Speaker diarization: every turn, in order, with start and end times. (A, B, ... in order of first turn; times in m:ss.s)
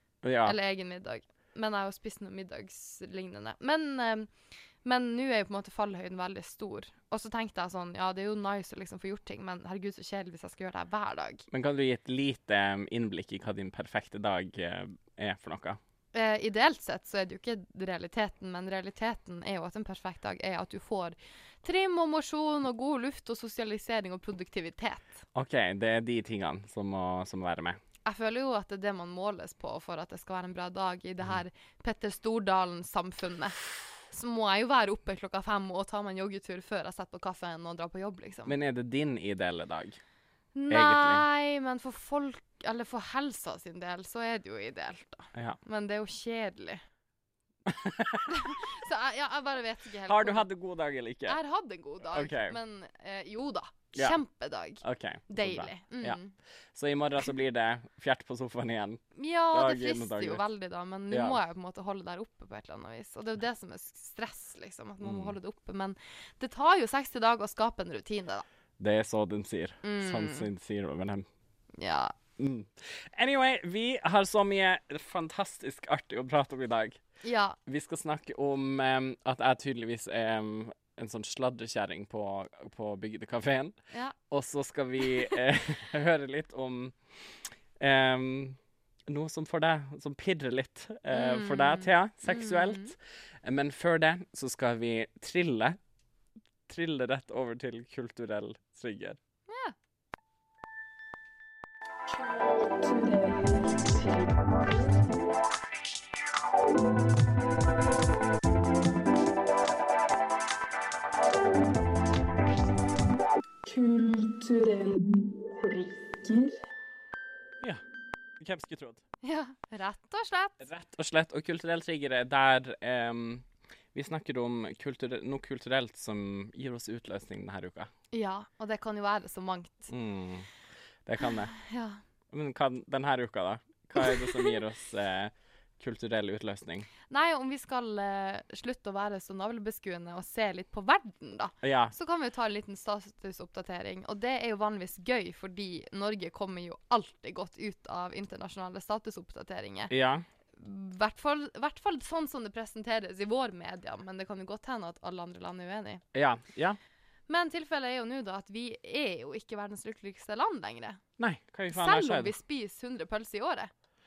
0:00.2-0:00.6 A
0:00.4-0:04.3 B
0:04.8-0:11.4 B
0:11.5-0:15.8 A
0:16.1-0:25.1 B
0:25.3-0:27.8 A
0:28.0-0:33.6 B
0:34.1-0:38.5 B
0:38.5-0:40.0 A
0:40.5-0:46.8 B
0:40.7-0:41.2 A
0:45.3-0:45.6 A
0:47.6-0:48.3 A
0:48.3-0:50.5 B
0:50.0-0:51.4 A
0:51.2-0:56.3 B
0:52.1-0:52.6 A
0:54.8-0:56.2 A
0:56.7-0:59.0 A
0:59.1-1:08.4 B
0:59.5-1:00.4 A
1:01.1-1:01.4 A
1:05.0-1:05.4 A
1:08.8-1:11.2 A
1:09.8-1:10.5 B
1:11.8-1:12.1 B
1:12.4-1:17.0 A
1:17.2-1:17.6 B
1:17.7-1:23.7 A
1:23.9-1:24.2 B
1:24.3-1:28.6 A
1:29.1-1:35.8 A
1:31.1-1:32.9 B
1:36.7-1:39.2 A
1:39.5-1:39.7 B
1:42.1-1:44.9 C
1:53.6-1:56.6 C
1:58.4-1:59.0 A
1:59.2-2:00.7 B
2:00.6-2:07.9 A
2:08.1-2:09.9 B
2:09.9-2:10.5 A
2:11.0-2:11.5 A
2:11.3-2:12.0 B
2:12.3-2:16.9 A
2:14.0-2:14.6 B
2:17.1-2:29.9 B
2:21.6-2:21.9 A
2:29.9-2:30.2 A
2:30.5-2:36.0 B
2:36.1-2:36.8 A
2:37.3-2:41.0 B
2:41.2-2:42.3 A
2:41.7-2:43.7 B